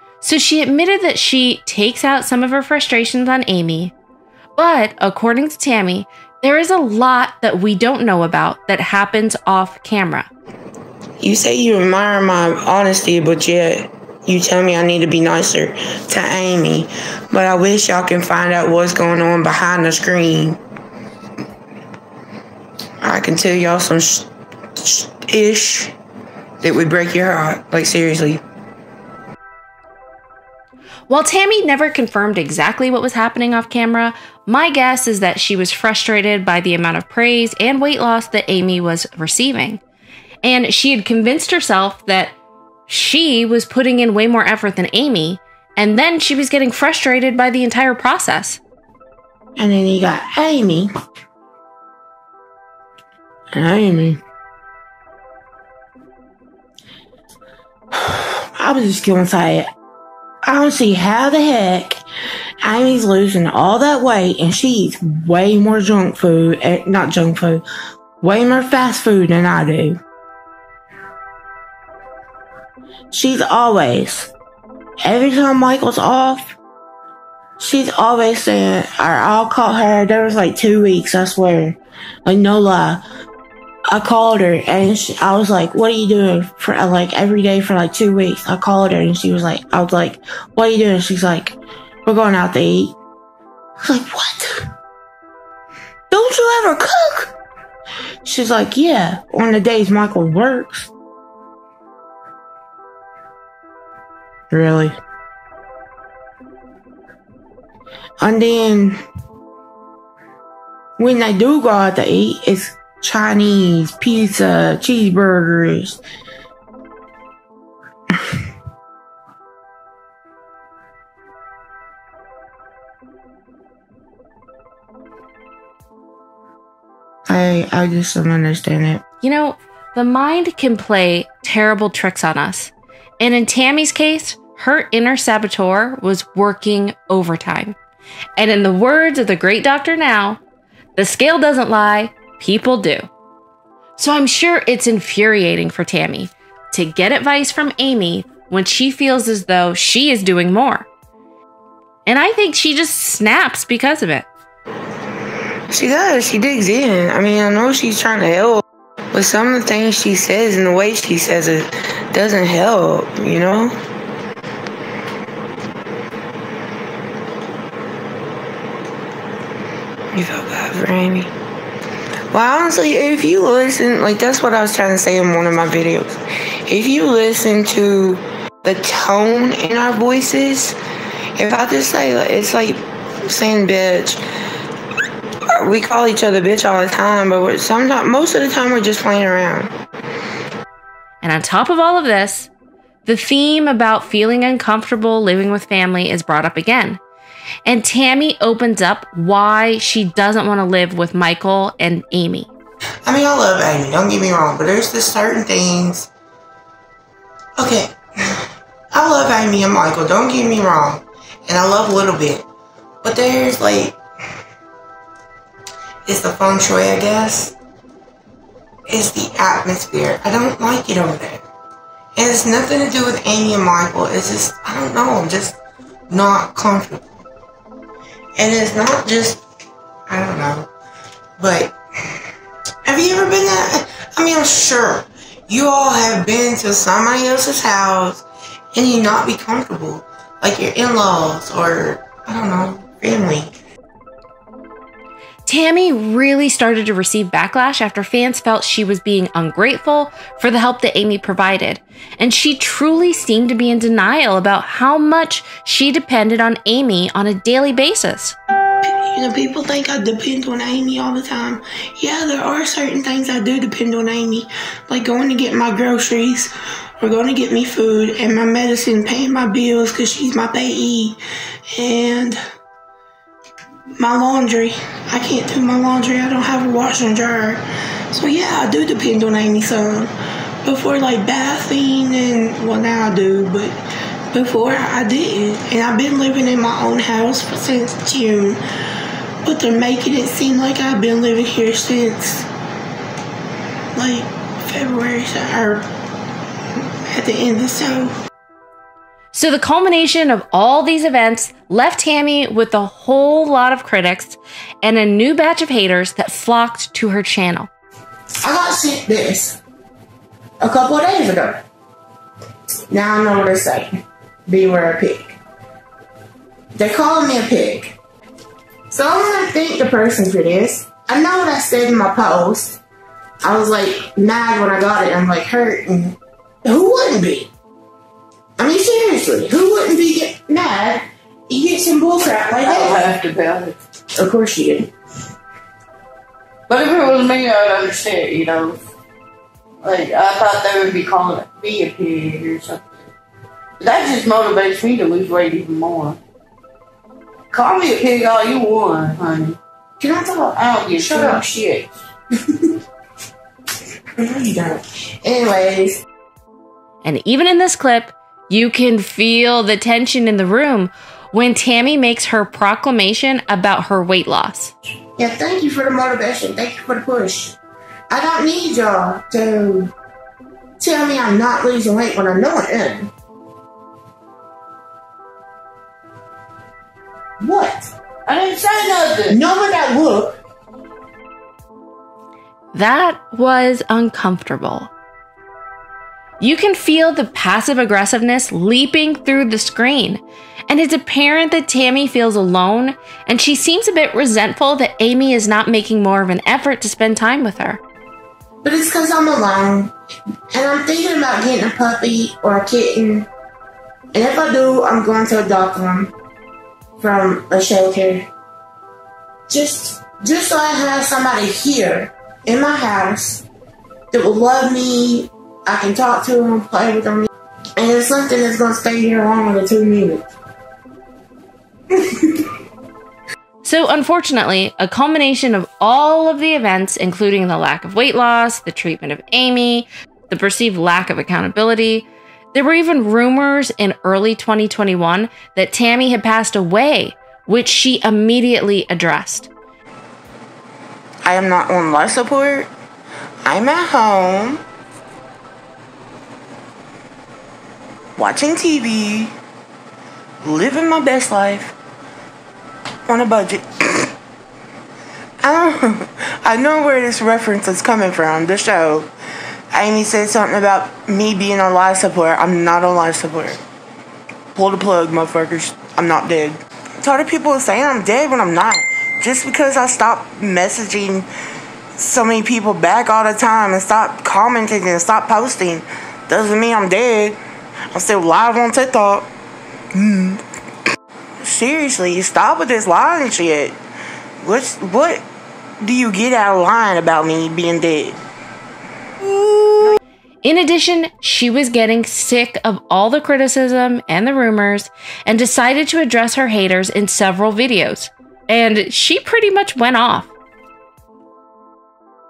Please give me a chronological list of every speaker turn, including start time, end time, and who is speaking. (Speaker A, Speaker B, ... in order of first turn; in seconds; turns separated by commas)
Speaker A: 0.2-3.9, Speaker A: 4.6-10.3, Speaker B: 11.2-20.6, Speaker B: 23.0-25.9, Speaker B: 26.6-28.4, Speaker A: 31.1-39.8, Speaker A: 40.4-42.4, Speaker A: 42.9-48.6, Speaker B: 49.6-50.9, Speaker B: 53.5-54.2, Speaker B: 57.9-59.7, Speaker B: 60.5-62.0, Speaker B: 62.6-67.6, Speaker B: 68.2-70.0, Speaker B: 73.1-74.3, Speaker B: 75.0-76.6, Speaker B: 77.6-83.0, Speaker B: 83.9-93.0, Speaker B: 93.8-94.7, Speaker B: 96.1-97.3, Speaker B: 98.2-100.9, Speaker B: 104.5-105.0, Speaker B: 108.2-109.0, Speaker B: 111.0-116.0, Speaker B: 127.3-129.0, Speaker A: 129.2-137.8, Speaker A: 138.4-140.4, Speaker A: 141.0-143.1, Speaker A: 144.0-150.9, Speaker A: 152.1-154.3, Speaker B: 155.7-163.8, Speaker B: 170.1-171.3, Speaker B: 172.3-180.8, Speaker B: 181.4-184.2, Speaker B: 185.5-189.7, Speaker A: 191.2-192.5, Speaker A: 193.1-197.0, Speaker A: 197.7-202.5, Speaker B: 203.1-206.1, Speaker B: 207.6-212.5, Speaker B: 213.0-214.0, Speaker B: 216.1-217.6, Speaker B: 218.9-221.4, Speaker B: 222.2-225.6, Speaker B: 226.1-227.1, Speaker B: 228.4-229.4, Speaker B: 230.1-230.7, Speaker B: 231.4-231.8, Speaker B: 232.9-243.5, Speaker A: 245.5-258.4, Speaker B: 258.8-271.2, Speaker B: 271.8-272.4, Speaker B: 274.0-280.1, Speaker B: 280.6-283.8, Speaker B: 284.3-288.6, Speaker B: 289.4-292.5, Speaker B: 293.9-295.9, Speaker B: 297.1-298.2, Speaker A: 299.3-307.7, Speaker B: 308.4-309.6, Speaker B: 310.6-311.6, Speaker B: 312.9-315.4, Speaker B: 316.8-318.0, Speaker B: 318.9-322.8, Speaker B: 323.4-327.5, Speaker B: 328.6-333.0, Speaker C: 332.7-333.8, Speaker B: 334.2-334.9, Speaker C: 336.7-338.8, Speaker C: 339.8-343.0, Speaker C: 343.8-346.2, Speaker C: 347.5-349.6, Speaker B: 350.0-351.6, Speaker C: 350.6-351.9, Speaker B: 354.2-356.1, Speaker A: 357.0-364.7, Speaker B: 365.2-367.6, Speaker B: 368.1-369.9, Speaker B: 370.8-373.1, Speaker B: 377.4-377.9, Speaker C: 378.3-379.4, Speaker B: 379.3-380.4, Speaker A: 382.7-384.9, Speaker A: 386.4-397.8, Speaker B: 398.6-399.9, Speaker B: 400.5-403.3, Speaker B: 404.1-406.1, Speaker B: 407.0-408.3, Speaker B: 409.5-413.4, Speaker B: 414.1-420.3, Speaker B: 422.0-422.4, Speaker A: 423.6-439.5, Speaker B: 441.2-442.7, Speaker B: 443.4-444.6, Speaker B: 448.2-449.3, Speaker B: 450.4-451.7, Speaker B: 453.1-454.1, Speaker B: 455.4-459.1, Speaker B: 459.7-463.6, Speaker B: 464.6-471.3, Speaker B: 472.0-477.4, Speaker B: 477.9-479.3, Speaker B: 479.9-480.4, Speaker B: 481.4-483.8, Speaker B: 484.4-485.2, Speaker B: 485.8-488.2, Speaker A: 489.3-500.3